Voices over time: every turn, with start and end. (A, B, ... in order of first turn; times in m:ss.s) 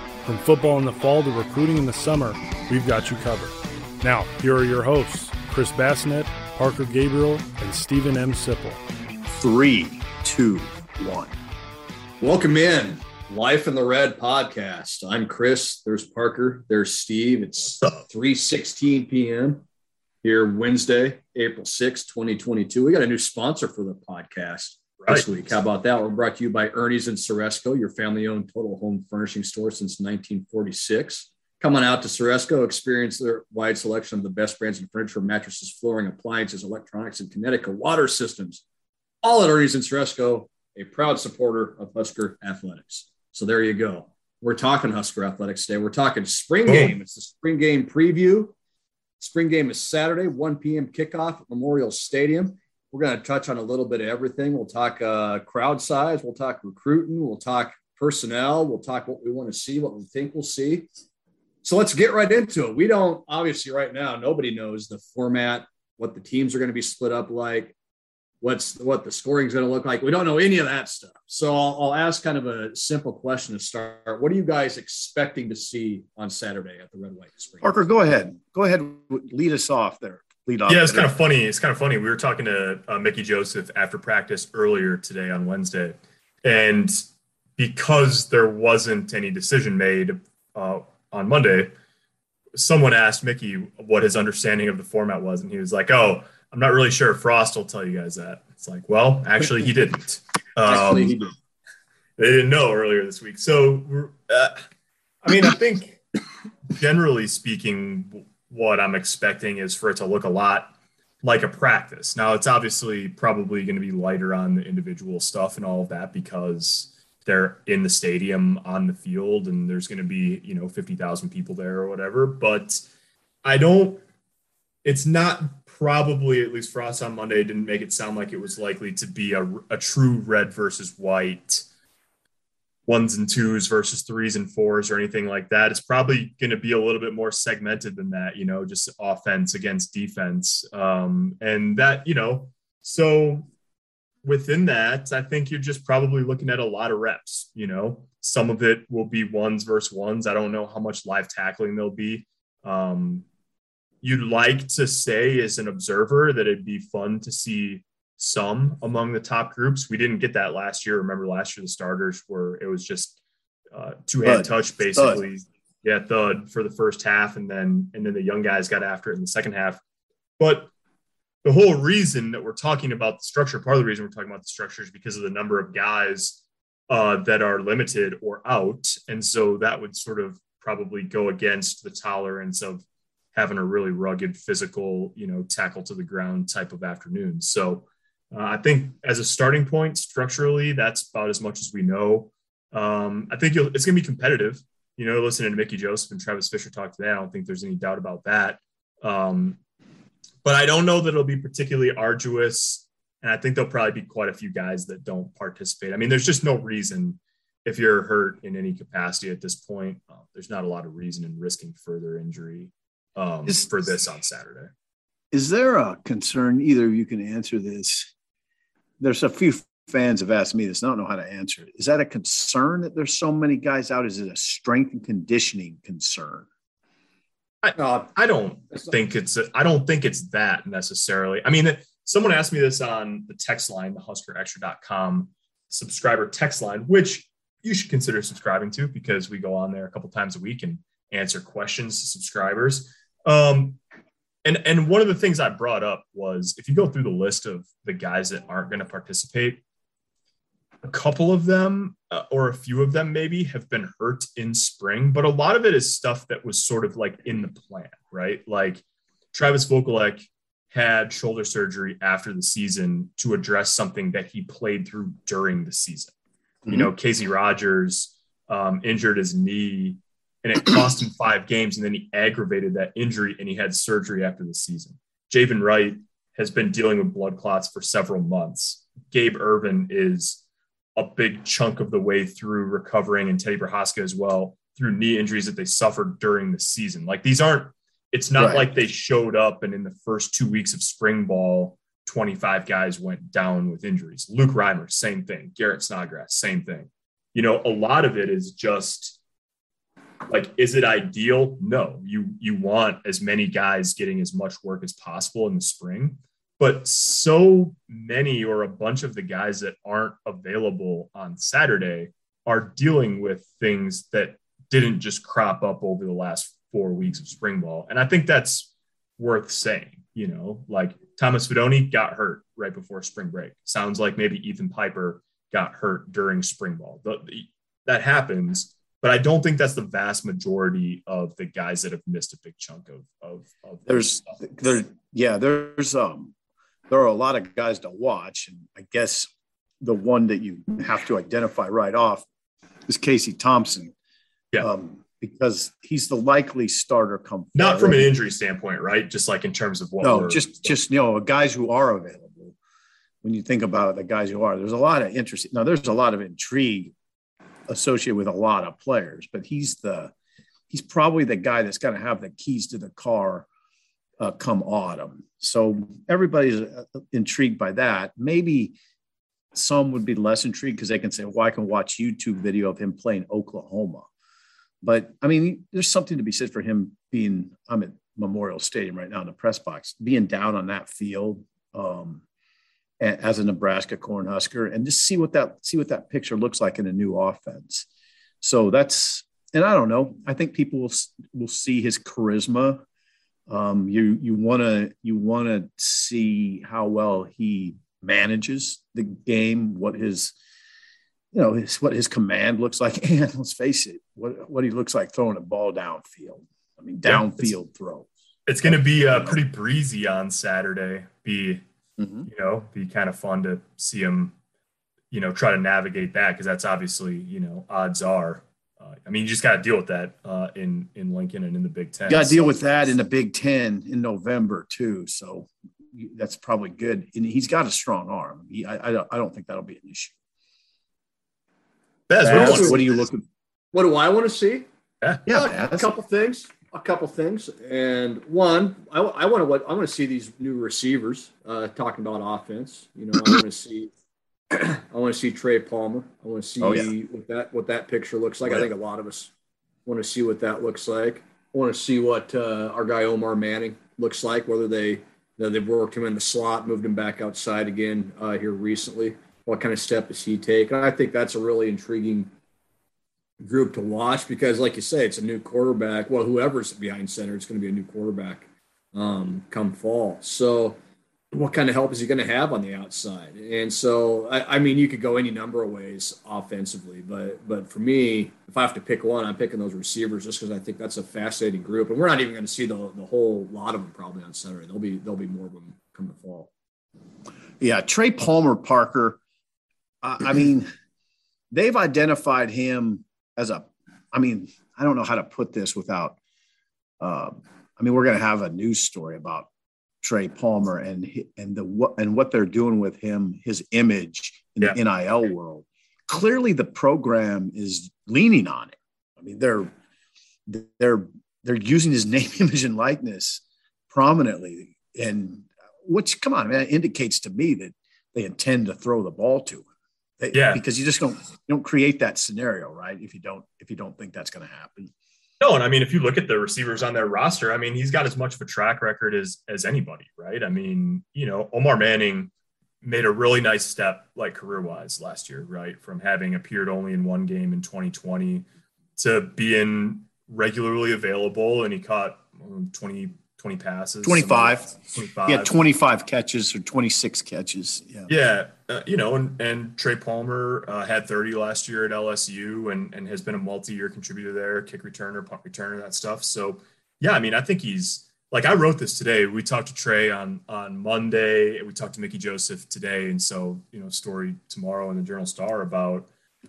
0:00.3-0:08.8 A
0:09.3-0:11.4 B
0:12.2-0:19.6 C
0:17.8-0:18.0 D
0:20.2-0:38.6 C
0:39.2-0:48.6 C
0:46.7-0:47.0 D
0:49.2-1:00.9 C
1:01.6-1:07.8 C
1:08.4-1:17.8 C
1:17.6-1:21.1 B
1:20.7-1:27.1 D
1:27.6-1:31.7 D
1:32.6-1:41.2 D
1:40.6-1:41.3 C
1:42.2-1:44.6 D
1:45.2-1:46.0 D
1:46.7-2:02.9 D
2:03.4-2:04.0 D
2:04.8-2:11.7 D
2:12.9-2:23.5 D
2:24.2-2:33.2 D
2:34.0-2:43.2 D
2:43.7-2:49.8 D
2:44.2-2:45.2 B
2:50.4-2:50.7 D
2:51.4-3:19.6 D
3:20.4-3:34.7 D
3:35.3-3:38.1 B
3:39.0-3:46.5 B
3:47.6-4:03.8 D
3:47.8-3:48.1 C
4:04.4-4:09.6 D
4:10.8-4:26.1 D
4:26.7-4:40.4 D
4:41.0-4:59.2 D
4:48.4-4:48.7 B
5:00.3-5:34.4 D
5:33.9-5:36.3 B
5:36.9-5:39.3 B
5:39.8-5:42.3 B
5:42.9-5:43.9 B
5:44.6-5:48.1 B
5:47.6-5:50.8 D
5:50.0-5:52.6 B
5:53.2-5:56.9 B
5:57.7-6:00.1 B
6:00.7-6:03.5 B
6:04.2-6:08.8 B
6:09.5-6:14.1 B
6:14.8-6:22.2 B
6:23.0-6:27.9 B
6:28.4-6:32.8 B
6:33.5-6:40.3 B
6:41.3-6:48.1 B
6:47.0-6:47.5 D
6:48.5-6:51.6 D
6:48.7-6:49.4 B
6:52.0-6:52.3 B
6:52.3-6:54.3 D
6:55.1-7:02.9 D
7:02.1-7:10.2 B
7:12.1-7:12.8 D
7:12.2-7:13.2 B
7:12.3-7:12.8 C
7:13.7-7:14.7 C
7:15.3-7:16.0 B
7:15.3-7:23.9 C
7:24.5-7:29.3 C
7:26.6-7:26.9 B
7:29.9-7:42.3 C
7:43.4-7:50.8 C
7:51.3-8:06.5 C
8:07.6-8:09.2 B
8:10.0-8:10.7 B
8:11.5-8:16.2 B
8:17.0-8:19.5 B
8:20.0-8:29.7 B
8:30.5-8:39.7 B
8:40.2-8:44.9 B
8:40.3-8:40.6 D
8:45.4-8:52.3 D
8:52.8-8:58.5 D
8:59.0-9:05.5 D
9:04.0-9:08.1 B
9:08.1-9:26.1 D